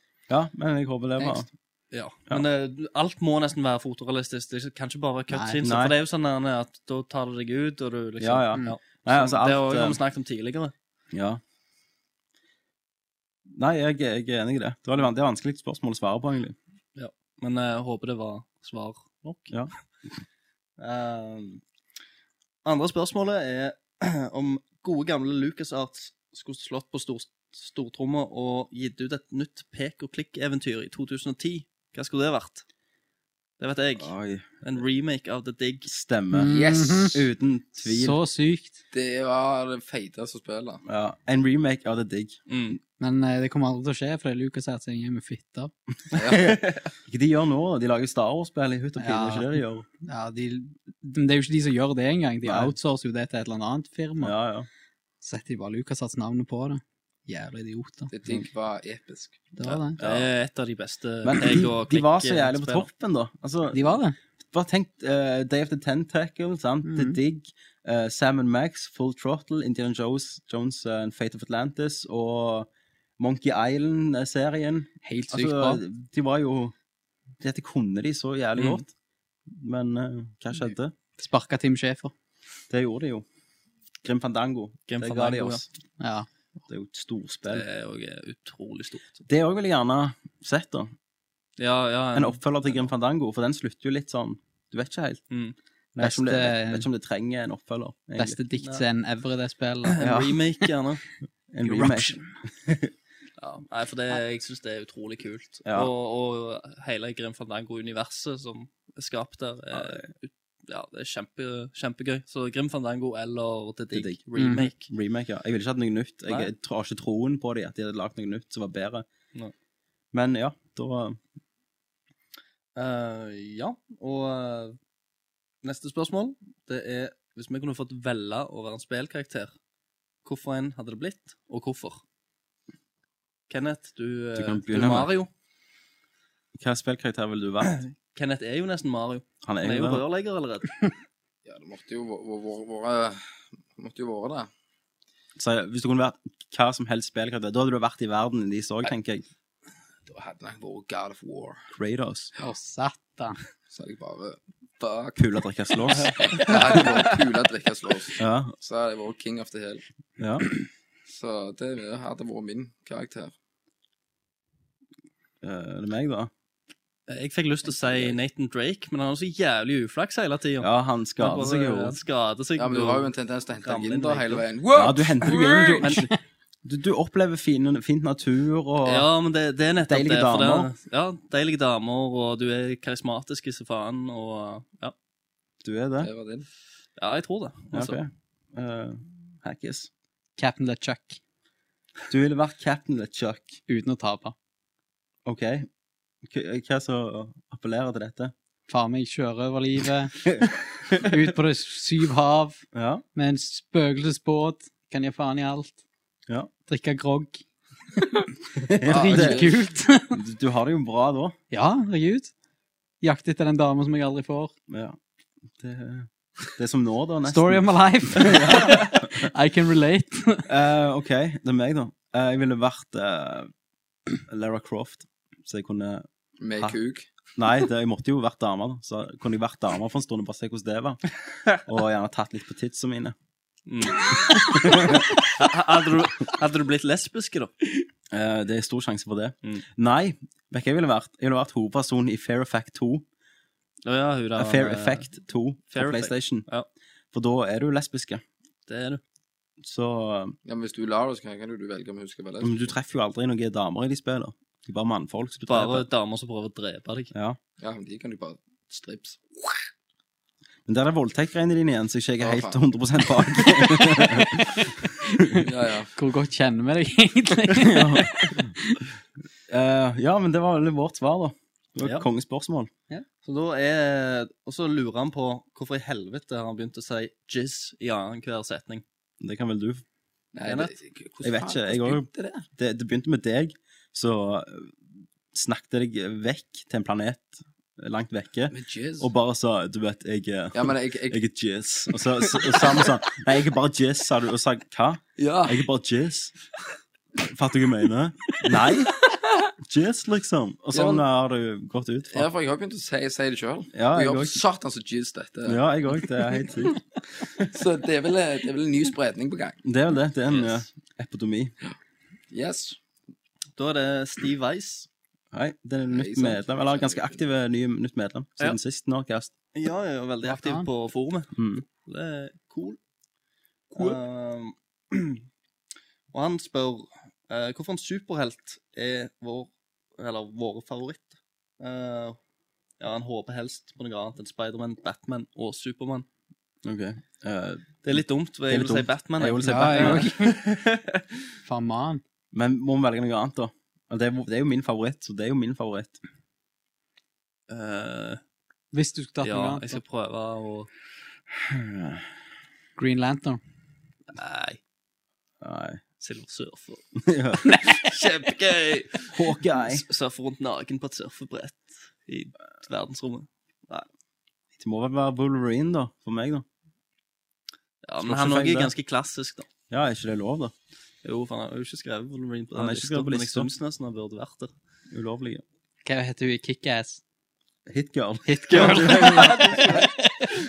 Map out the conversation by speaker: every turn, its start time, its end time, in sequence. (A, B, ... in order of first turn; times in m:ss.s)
0:00.3-0:01.5 A
0:01.9-0:10.7 B
0:05.3-0:05.6 C
0:05.6-0:05.9 A
0:08.2-0:10.0 A
0:11.1-0:11.4 A
0:13.5-0:16.6 A
0:17.0-0:19.5 B
0:20.8-0:21.6 B
0:22.6-0:32.6 B
0:33.6-0:35.9 B
0:34.0-0:34.6 A
0:35.8-0:38.2 A
0:36.3-0:37.2 C
0:36.5-0:37.2 D
0:37.8-0:38.8 C
0:38.9-0:40.8 D
0:40.8-0:42.4 A
0:42.5-0:42.8 B
0:43.0-0:45.7 C
0:46.1-0:46.6 D
0:46.2-0:49.8 A
0:49.0-0:54.4 C
0:52.4-0:52.7 A
0:54.2-0:54.7 A
0:55.2-0:58.1 C
0:58.1-0:59.5 D
0:59.6-1:00.0 C
0:59.6-1:02.9 B
1:00.0-1:00.3 A
1:01.2-1:04.0 A
1:03.7-1:04.1 C
1:04.5-1:16.7 A
1:06.8-1:07.2 C
1:15.0-1:15.8 C
1:17.4-1:18.9 A
1:18.6-1:18.8 B
1:19.5-1:20.9 A
1:21.2-1:22.1 C
1:22.7-1:23.2 A
1:24.0-1:25.6 A
1:24.9-1:25.6 B
1:26.0-1:26.3 C
1:26.7-1:27.6 A
1:27.5-1:29.2 B
1:29.3-1:30.9 A
1:31.6-1:32.8 B
1:32.1-1:35.2 A
1:36.0-1:36.9 C
1:36.0-1:38.4 A
1:38.2-1:40.1 C
1:39.9-1:41.0 B
1:40.0-1:40.4 A
1:41.5-1:42.9 A
1:41.6-1:42.3 C
1:43.4-1:54.9 B
1:45.6-1:45.9 A
1:49.7-1:50.1 A
1:53.9-1:59.0 A
1:54.4-1:54.7 C
2:00.1-2:01.2 A
2:02.8-2:04.8 B
2:05.6-2:09.5 B
2:10.2-2:12.0 B
2:13.5-2:15.3 B
2:14.3-2:15.1 A
2:16.5-2:17.8 A
2:17.7-2:20.9 B
2:19.4-2:20.0 A
2:21.4-2:24.5 D
2:25.4-2:29.2 A
2:30.0-2:31.6 D
2:31.7-2:32.3 A
2:32.4-2:33.4 C
2:33.7-2:35.2 D
2:35.2-2:36.5 A
2:36.2-2:39.8 D
2:38.2-2:38.5 A
2:40.2-2:40.4 A
2:41.0-2:43.3 D
2:45.4-2:46.3 A
2:47.1-2:54.4 B
2:50.6-2:52.0 A
2:52.6-2:56.0 D
2:54.7-2:56.1 A
2:56.6-2:59.1 A
2:58.8-3:04.9 B
2:59.9-3:00.7 A
3:05.6-3:06.1 A
3:06.0-3:06.4 D
3:07.0-3:08.0 B
3:07.7-3:09.9 A
3:10.4-3:11.2 C
3:12.1-3:13.6 A
3:13.7-3:14.3 C
3:15.2-3:15.7 A
3:16.2-3:18.3 A
3:18.7-3:20.2 C
3:20.2-3:21.1 A
3:21.0-3:22.6 C
3:22.7-3:23.0 A
3:23.1-3:25.8 C
3:26.7-3:27.4 C
3:28.0-3:28.2 C
3:28.7-3:29.5 A
3:28.8-3:29.6 D
3:28.8-3:30.2 C
3:30.1-3:31.4 A
3:31.5-3:32.3 C
3:33.0-3:34.5 C
3:34.7-3:35.0 A
3:35.6-3:39.3 A
3:37.2-3:40.4 C
3:40.5-3:43.5 A
3:44.3-3:46.1 A
3:46.4-3:47.1 D
3:47.4-3:53.1 A
3:53.7-3:57.6 B
3:54.5-3:55.0 A
3:58.1-4:03.0 A
4:03.8-4:05.1 B
4:04.4-4:06.5 A
4:05.7-4:06.7 B
4:07.1-4:08.2 A
4:08.7-4:09.0 B
4:09.6-4:10.4 A
4:10.4-4:12.7 D
4:12.4-4:15.8 A
4:15.5-4:17.1 B
4:17.1-4:17.4 A
4:17.6-4:19.5 D
4:20.6-4:24.5 A
4:22.2-4:22.6 D
4:23.8-4:25.4 C
4:25.4-4:25.9 D
4:25.9-4:28.8 C
4:27.6-4:28.5 A
4:29.5-4:32.7 A
4:33.2-4:38.8 B
4:39.2-4:39.8 A
4:40.3-4:42.4 D
4:40.4-4:40.7 B
4:41.2-4:44.8 A
4:45.3-4:56.3 A
4:48.5-4:49.1 D
4:50.5-4:51.2 D
4:52.2-4:52.9 D
4:55.2-4:55.6 D
4:57.2-4:58.9 A
4:59.6-5:02.3 A
5:00.7-5:01.0 D
5:02.1-5:05.6 D
5:03.7-5:04.4 A
5:05.4-5:06.8 A
5:07.4-5:09.6 D
5:09.6-5:11.5 A
5:10.3-5:10.6 B
5:12.3-5:12.8 D
5:13.6-5:14.9 B
5:15.3-5:19.3 A
5:15.9-5:17.2 D
5:19.5-5:22.8 B
5:20.2-5:20.7 C
5:21.4-5:21.6 A
5:23.7-5:24.0 A
5:23.7-5:25.2 B
5:26.1-5:32.2 B
5:32.8-5:36.0 B
5:36.6-5:40.3 A
5:37.8-5:41.0 B
5:39.4-5:40.4 C
5:41.4-5:42.0 C
5:42.3-5:46.0 A
5:47.5-5:48.2 B
5:48.7-5:49.8 C
5:49.2-5:50.7 B
5:51.4-5:52.0 A
5:52.8-5:53.4 C
5:54.1-5:54.6 B
5:55.4-5:55.8 A
5:56.0-5:56.8 B
5:57.0-5:57.4 A
5:57.7-6:03.8 B
5:59.1-5:59.8 A
6:04.5-6:06.4 A
6:07.8-6:09.5 B
6:08.0-6:08.7 A
6:09.7-6:10.5 A
6:11.0-6:14.5 B
6:12.5-6:13.5 A
6:14.9-6:15.4 A
6:15.8-6:17.0 C
6:17.7-6:19.6 A
6:18.3-6:20.3 C
6:18.6-6:19.9 B